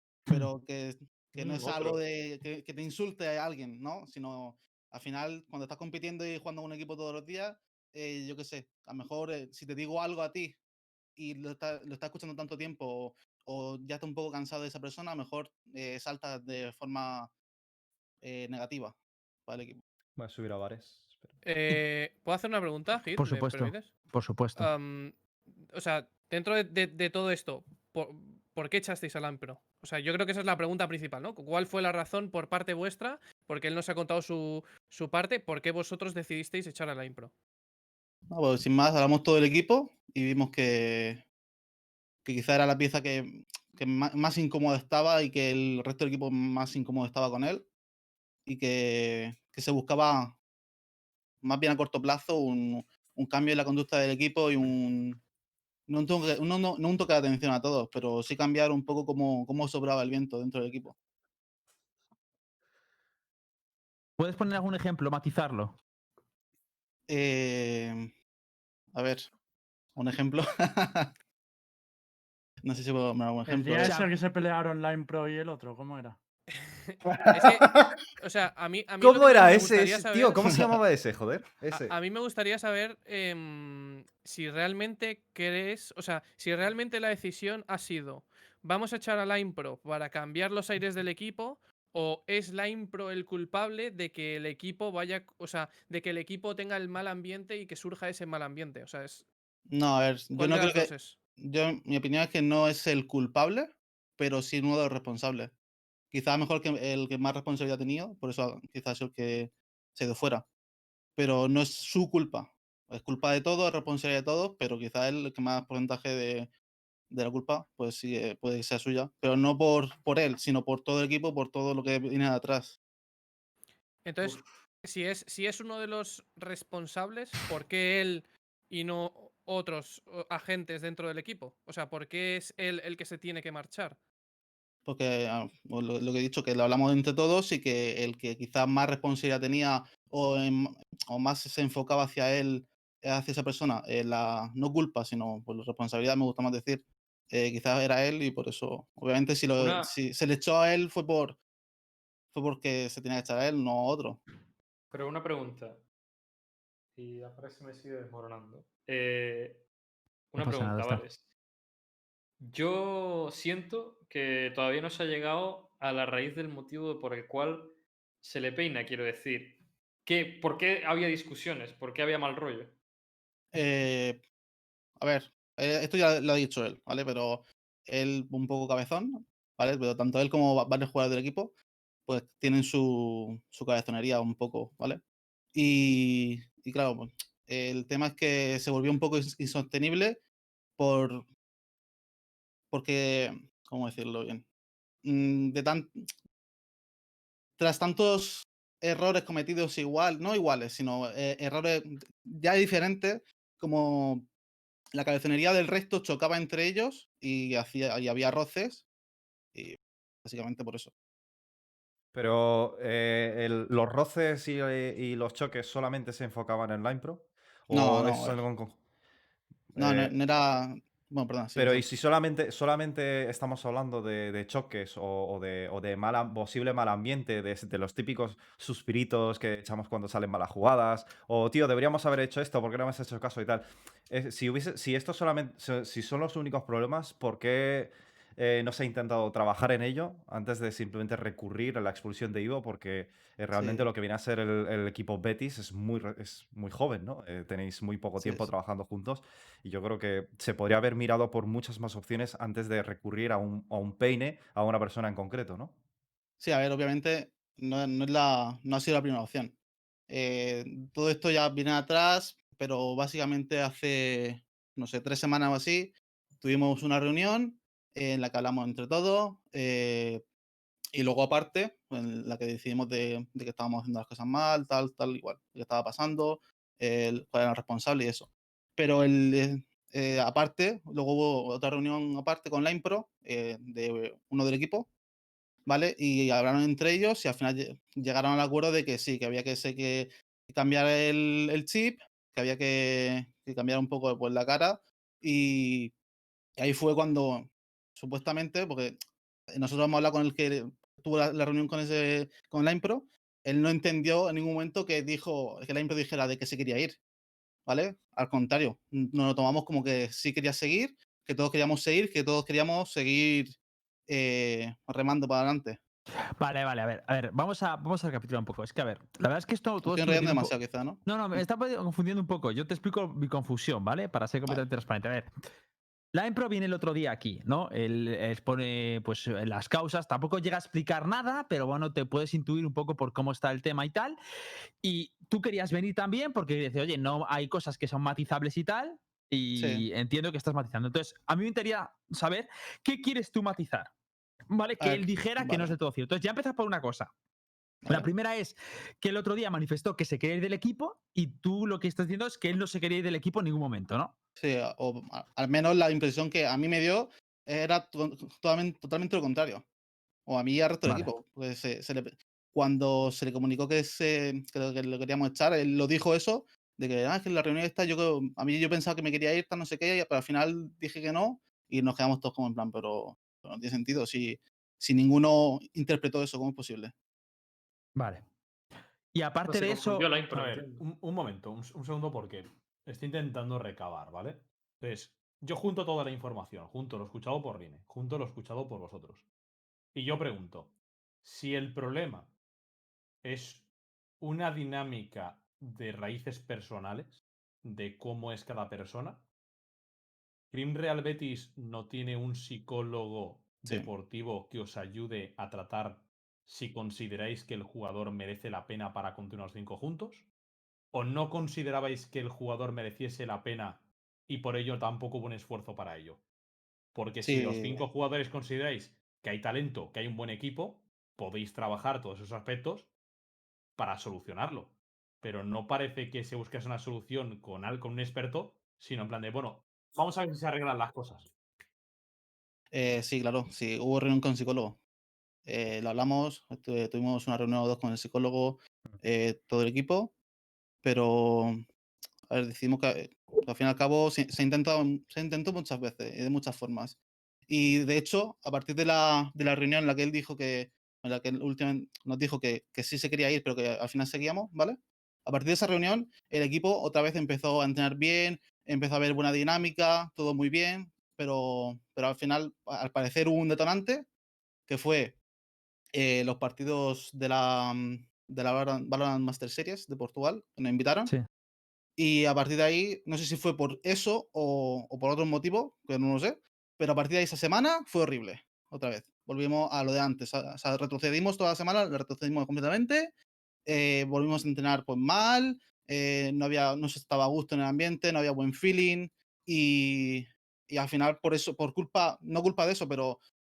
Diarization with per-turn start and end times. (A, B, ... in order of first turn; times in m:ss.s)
0:00.3-0:10.6 A
0:01.4-0:02.0 B
0:11.2-0:17.3 A
0:18.2-0:19.8 A
0:20.2-0:21.3 C
0:21.4-0:23.9 D
0:23.2-0:24.7 E
0:24.6-0:37.3 D
0:38.3-0:41.2 A
0:42.2-0:47.7 A
0:48.5-0:50.4 A
0:51.4-0:55.2 A
0:55.9-1:00.9 A
1:04.2-1:05.8 E
1:07.1-1:08.1 A
1:08.9-1:09.3 A
1:09.9-1:11.1 A
1:12.6-1:14.0 A
1:13.5-1:16.2 F
1:13.8-1:14.1 E
1:16.9-1:20.6 D
1:19.0-1:21.9 C
1:21.7-1:39.3 D
1:39.7-1:45.5 A
1:40.4-1:41.2 D
1:46.1-1:50.5 A
1:51.2-1:56.5 A
1:57.1-2:02.8 A
2:04.0-2:14.0 D
2:14.9-2:31.4 A
2:29.6-2:29.9 B
2:32.3-2:34.2 A
2:34.9-2:35.8 B
2:36.9-2:39.6 B
2:40.3-2:41.2 B
2:40.4-2:41.0 E
2:42.4-2:52.7 B
2:53.5-2:54.2 A
2:55.0-3:01.6 A
3:02.1-3:05.0 A
3:05.5-3:10.2 A
3:10.8-3:11.3 A
3:12.7-3:14.4 A
3:15.0-3:16.0 A
3:17.6-3:24.3 A
3:24.9-3:28.9 A
3:29.5-3:30.9 A
3:32.1-3:38.8 C
3:37.7-3:38.4 A
3:39.7-3:40.2 C
3:39.8-3:41.9 A
3:41.6-4:15.8 C
4:03.5-4:03.8 A
4:08.2-4:08.5 A
4:16.4-4:19.6 A
4:20.1-4:30.2 A
4:30.9-4:44.9 A
4:45.6-4:55.9 A
4:56.6-4:59.0 A
4:59.5-5:07.0 A
5:07.6-5:13.6 A
5:14.1-5:15.8 A
5:16.4-5:25.3 E
5:19.8-5:21.0 A
5:26.1-5:34.2 E
5:34.8-5:43.9 E
5:39.6-5:39.8 A
5:44.5-5:47.1 E
5:44.8-5:45.7 A
5:47.9-5:54.1 E
5:54.4-5:59.7 A
6:00.2-6:17.0 A
6:00.8-6:01.1 E
6:18.0-6:18.2 E
6:19.1-6:20.1 E
6:19.5-6:20.8 B
6:20.3-6:29.3 G
6:29.9-6:32.3 G
6:33.2-6:33.7 G
6:34.2-6:39.2 G
6:40.5-6:50.3 G
6:50.9-6:56.2 G
6:56.9-7:02.9 G
6:57.2-6:57.8 A
7:03.8-7:11.3 G
7:12.7-7:14.8 A
7:15.5-7:20.1 A
7:20.8-7:21.7 A
7:22.3-7:44.1 A
7:44.7-7:45.2 A
7:45.9-7:51.1 A
7:52.0-8:03.1 A
8:03.6-8:13.2 A